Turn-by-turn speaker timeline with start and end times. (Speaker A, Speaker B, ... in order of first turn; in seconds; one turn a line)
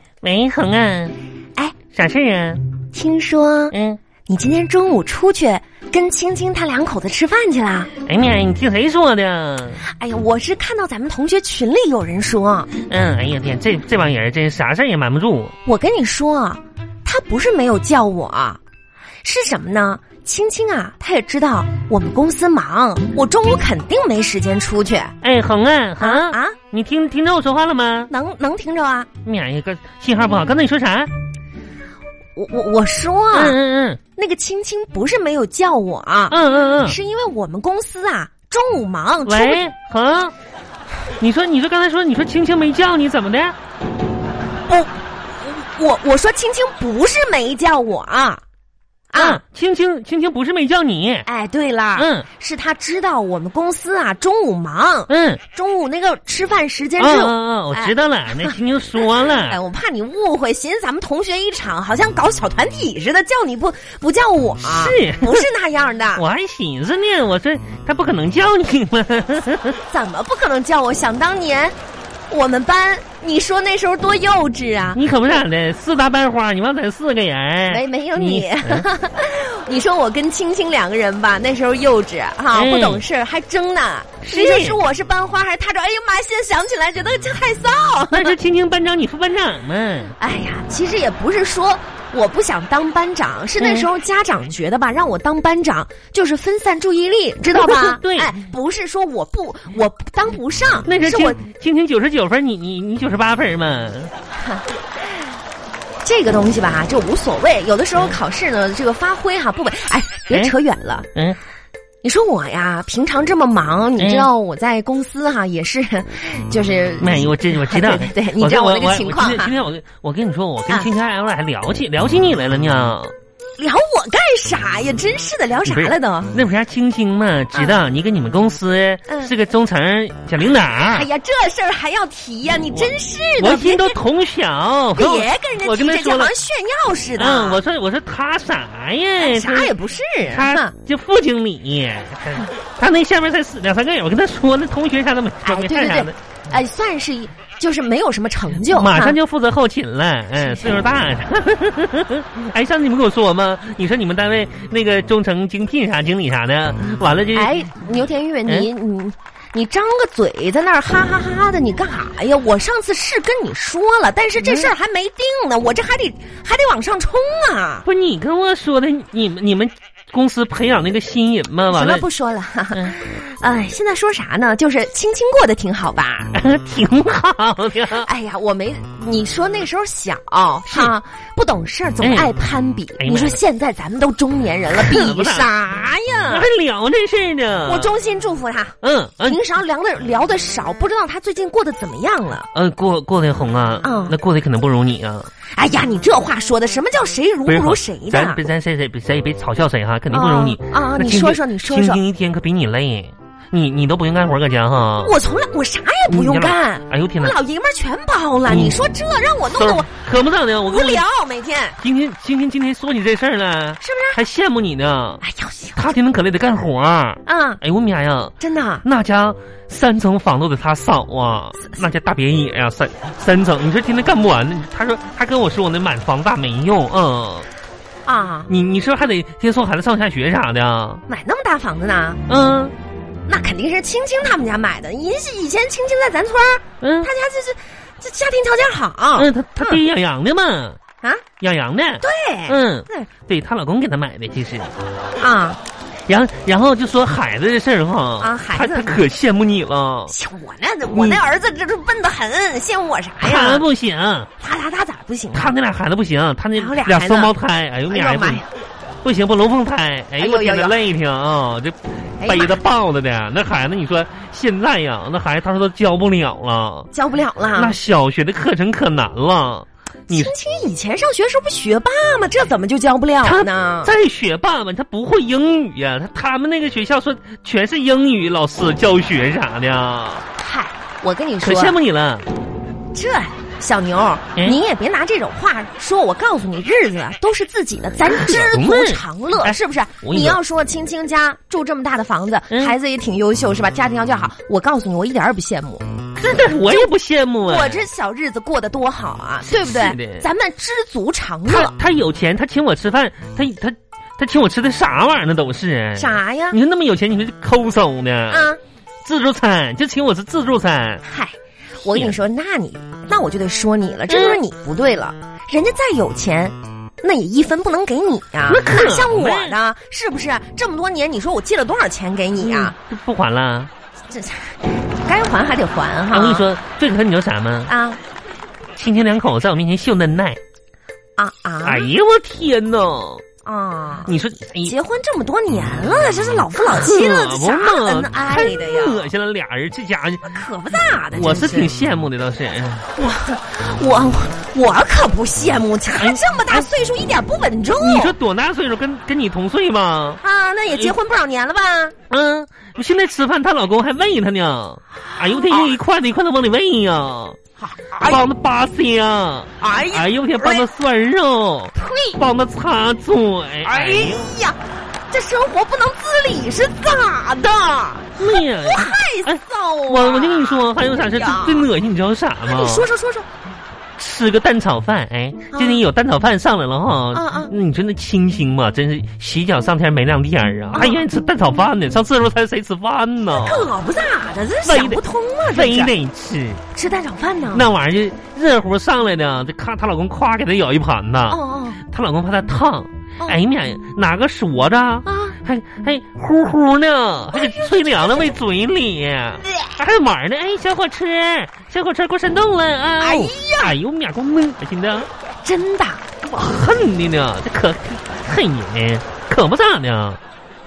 Speaker A: 0.2-1.2
Speaker A: 1.9-2.6
Speaker B: 2.9-3.8
Speaker A: 3.7-4.0
Speaker B: 4.3-7.9
Speaker A: 8.1-9.8
Speaker B: 9.8-12.7
Speaker A: 12.8-15.5
Speaker B: 15.6-18.6
Speaker B: 19.2-25.1
Speaker A: 25.2-28.1
Speaker B: 26.0-26.6
Speaker B: 28.1-29.1
Speaker A: 29.2-31.1
Speaker B: 32.4-33.6
Speaker A: 33.3-34.0
Speaker B: 34.1-39.6
Speaker A: 36.3-37.0
Speaker A: 39.3-40.3
Speaker A: 41.2-43.5
Speaker B: 44.7-48.4
Speaker B: 49.1-49.4
Speaker A: 49.1-51.3
Speaker B: 51.2-58.6
Speaker A: 51.9-52.3
Speaker A: 55.1-55.4
Speaker A: 57.0-59.6
Speaker B: 59.3-66.2
Speaker A: 64.6-65.5
Speaker A: 66.2-69.8
Speaker B: 69.9-71.8
Speaker B: 72.3-75.0
Speaker A: 75.0-78.9
Speaker B: 77.7-88.3
Speaker A: 82.5-83.0
Speaker A: 84.2-84.8
Speaker A: 88.1-90.2
Speaker B: 90.2-101.4
Speaker A: 93.6-93.9
Speaker A: 97.5-98.4
Speaker A: 100.8-104.1
Speaker B: 106.0-111.1
Speaker B: 112.0-119.5
Speaker A: 114.0-114.3
Speaker A: 117.0-123.1
Speaker B: 123.6-126.3
Speaker A: 125.7-131.1
Speaker B: 127.5-127.8
Speaker B: 129.1-129.3
Speaker B: 130.7-134.0
Speaker A: 132.7-136.3
Speaker B: 134.9-137.6
Speaker A: 137.2-139.7
Speaker B: 139.2-140.7
Speaker A: 140.3-146.1
Speaker B: 145.4-149.2
Speaker A: 148.6-157.5
Speaker B: 150.4-150.8
Speaker B: 157.3-167.8
Speaker A: 164.4-164.7
Speaker A: 167.8-172.0
Speaker B: 171.7-176.3
Speaker A: 176.3-178.1
Speaker B: 178.0-186.5
Speaker A: 180.7-180.9
Speaker A: 182.0-182.3
Speaker A: 183.0-183.4
Speaker A: 184.7-185.5
Speaker A: 186.3-187.9
Speaker B: 187.6-192.5
Speaker A: 188.8-189.4
Speaker A: 192.5-195.3
Speaker B: 193.8-194.2
Speaker B: 195.5-198.4
Speaker A: 197.5-205.1
Speaker B: 200.1-202.0
Speaker B: 205.0-209.9
Speaker A: 206.1-207.4
Speaker A: 208.5-208.8
Speaker A: 209.6-211.0
Speaker B: 210.7-211.8
Speaker A: 211.8-215.2
Speaker B: 213.8-214.2
Speaker B: 215.2-215.8
Speaker A: 215.8-227.5
Speaker B: 217.2-217.6
Speaker B: 218.4-218.8
Speaker B: 228.0-228.5
Speaker A: 228.5-231.0
Speaker B: 231.1-232.2
Speaker A: 232.3-232.7
Speaker B: 233.3-239.8
Speaker A: 236.8-237.1
Speaker A: 239.2-240.8
Speaker A: 241.4-244.7
Speaker B: 242.0-243.1
Speaker B: 245.2-245.6
Speaker A: 246.1-250.1
Speaker B: 248.2-249.0
Speaker B: 250.1-253.6
Speaker A: 250.9-251.2
Speaker A: 253.2-254.3
Speaker B: 254.4-255.5
Speaker A: 255.3-258.4
Speaker B: 256.5-257.3
Speaker B: 257.9-258.5
Speaker A: 259.0-266.9
Speaker B: 260.2-260.8
Speaker B: 262.2-262.6
Speaker B: 266.9-267.8
Speaker A: 267.5-270.3
Speaker B: 270.1-273.9
Speaker A: 273.2-280.2
Speaker B: 280.4-281.8
Speaker A: 281.4-282.3
Speaker B: 282.9-295.8
Speaker A: 288.1-290.4
Speaker A: 296.2-297.9
Speaker B: 296.6-296.9
Speaker B: 297.4-301.7
Speaker A: 299.5-300.2
Speaker A: 301.5-308.5
Speaker B: 305.9-306.6
Speaker B: 308.3-308.6
Speaker A: 309.0-311.0
Speaker B: 311.0-322.7
Speaker A: 311.9-312.2
Speaker A: 314.1-314.4
Speaker A: 318.5-319.5
Speaker A: 322.4-323.7
Speaker B: 324.1-326.5
Speaker A: 326.1-327.7
Speaker B: 327.7-328.0
Speaker A: 328.8-330.4
Speaker B: 331.2-331.9
Speaker A: 331.6-333.2
Speaker B: 333.4-339.1
Speaker A: 334.1-334.7
Speaker A: 336.6-340.4
Speaker B: 340.2-341.7
Speaker A: 341.1-342.9
Speaker B: 342.9-348.1
Speaker A: 345.9-346.7
Speaker A: 347.8-350.9
Speaker B: 350.2-351.9
Speaker A: 352.1-357.4
Speaker B: 355.1-355.8
Speaker B: 357.6-358.2
Speaker A: 358.0-364.3
Speaker B: 359.6-360.6
Speaker B: 361.8-362.2
Speaker B: 363.6-364.6
Speaker B: 365.1-371.7
Speaker A: 368.1-372.9
Speaker B: 372.4-373.3
Speaker A: 374.0-383.7
Speaker B: 375.5-375.8
Speaker B: 377.1-377.5
Speaker B: 380.7-381.1
Speaker B: 383.3-385.9
Speaker A: 384.6-386.6
Speaker B: 386.7-387.6
Speaker A: 387.5-405.1
Speaker B: 391.3-391.8
Speaker B: 395.0-395.4
Speaker B: 397.3-398.3
Speaker B: 403.0-403.8
Speaker B: 405.4-406.0
Speaker A: 406.3-410.2